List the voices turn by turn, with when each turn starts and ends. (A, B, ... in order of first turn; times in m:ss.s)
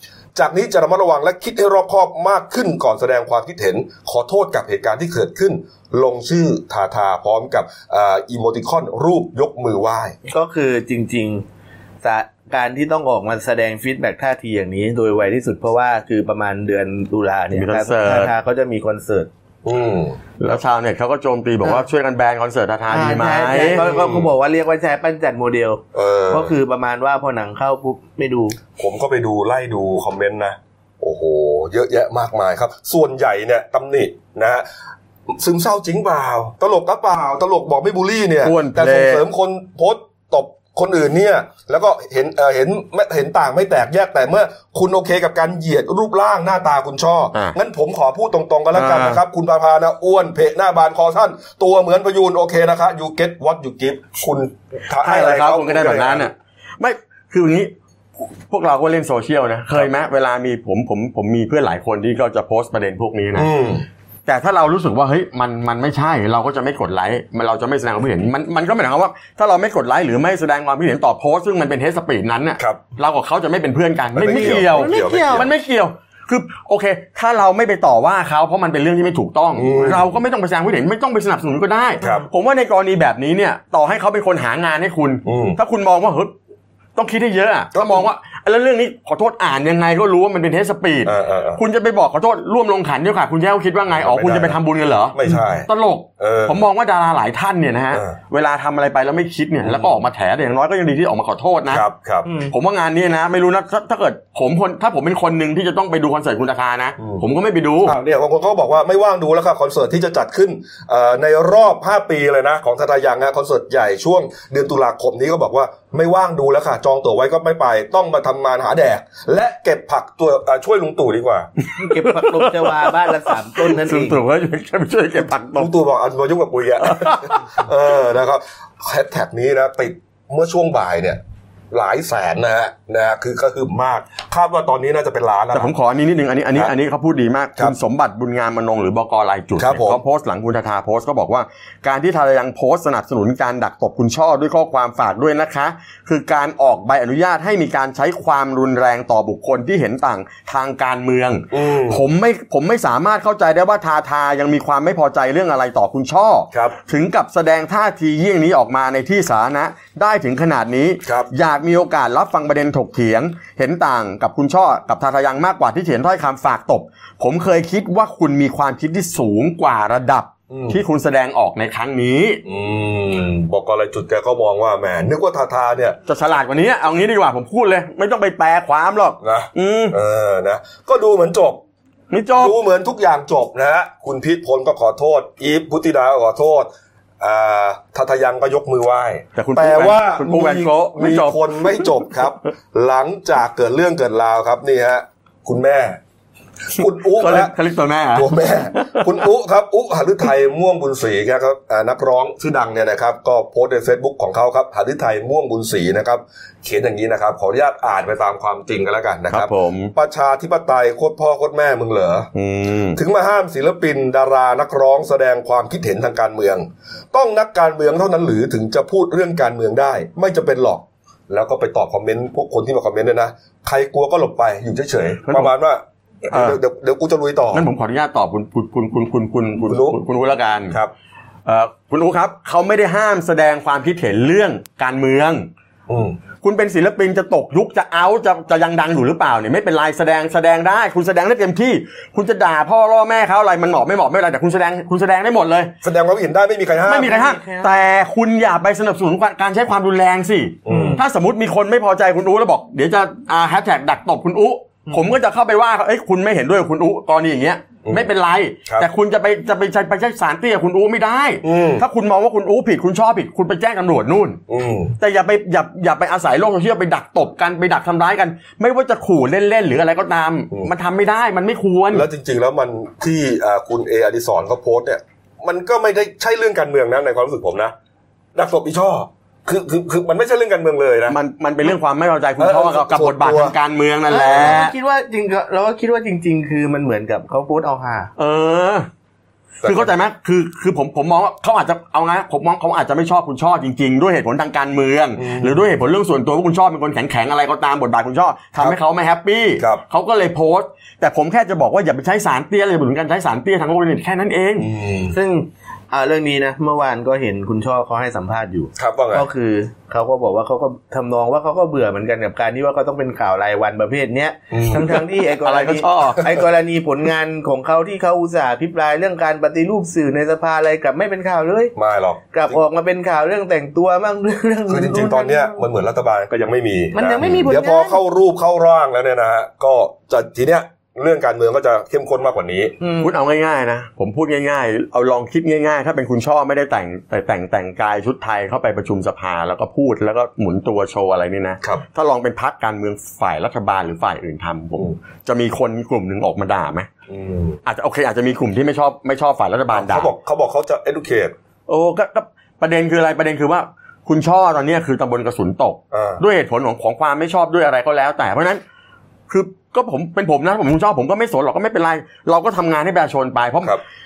0:00.3-0:10.2 A
0:10.3-0:11.4 B
0:12.0-0:19.3 B
0:17.5-0:18.3 C
0:19.6-0:20.2 A
0:20.4-0:23.8 C
0:22.9-0:28.6 B
0:23.8-0:24.3 A
0:25.9-0:26.5 A
0:28.8-0:34.6 A
0:35.3-0:56.3 A
0:38.4-0:39.2 C
0:48.7-0:49.2 C
0:55.0-0:57.7 C
0:58.5-1:03.5 C
1:03.4-1:03.8 A
1:04.2-1:26.3 C
1:14.2-1:15.5 A
1:14.3-1:15.5 B
1:19.5-1:20.0 A
1:22.0-1:22.3 A
1:25.2-1:25.6 A
1:27.0-1:41.9 C
1:27.7-1:28.1 A
1:31.0-1:31.6 A
1:33.9-1:34.6 A
1:35.1-1:36.6 A
1:39.6-1:40.0 A
1:41.7-1:42.3 A
1:42.2-1:42.5 B
1:42.4-1:48.0 C
1:47.8-2:01.5 A
2:01.8-2:04.2 B
2:01.9-2:05.7 C
2:05.6-2:11.2 A
2:06.8-2:07.6 C
2:11.7-2:15.7 A
2:15.5-2:52.4 C
2:19.6-2:20.0 A
2:31.5-2:32.0 A
2:41.0-2:41.3 A
2:50.5-2:50.8 A
2:52.4-2:56.0 A
2:56.1-3:00.0 C
2:59.2-3:01.6 A
3:02.1-3:02.6 C
3:02.4-3:16.0 A
3:09.3-3:12.2 C
3:16.7-3:17.5 A
3:16.8-3:19.1 C
3:18.1-3:32.3 A
3:29.3-3:29.9 C
3:32.3-3:33.0 C
3:32.9-3:47.7 A
3:46.3-3:46.6 C
3:47.5-3:50.8 C
3:49.7-3:50.0 A
3:51.4-3:55.5 C
3:55.9-3:56.2 A
3:56.4-4:05.7 C
4:05.8-4:07.1 A
4:06.8-4:24.4 C
4:06.9-4:07.7 B
4:10.6-4:11.0 A
4:10.7-4:11.0 B
4:21.4-4:21.8 A
4:24.5-4:24.9 A
4:25.0-4:32.1 C
4:31.9-4:37.7 A
4:38.3-4:41.2 A
4:41.1-4:44.7 C
4:42.4-4:43.5 A
4:44.1-4:48.1 B
4:48.2-4:48.9 C
4:49.6-4:49.9 A
4:49.6-5:04.7 C
4:55.2-4:55.6 A
5:04.6-5:05.2 A
5:05.1-5:21.7 B
5:08.8-5:09.2 A
5:14.5-5:15.0 A
5:14.9-5:16.4 C
5:21.8-5:22.6 A
5:22.3-5:25.6 B
5:24.7-5:32.7 A
5:26.9-5:28.0 B
5:32.8-5:33.1 B
5:33.0-5:46.9 C
5:47.1-5:47.6 A
5:47.6-5:50.1 C
5:49.7-5:51.3 A
5:51.7-5:58.6 C
5:55.9-5:56.2 A
5:59.3-6:03.7 C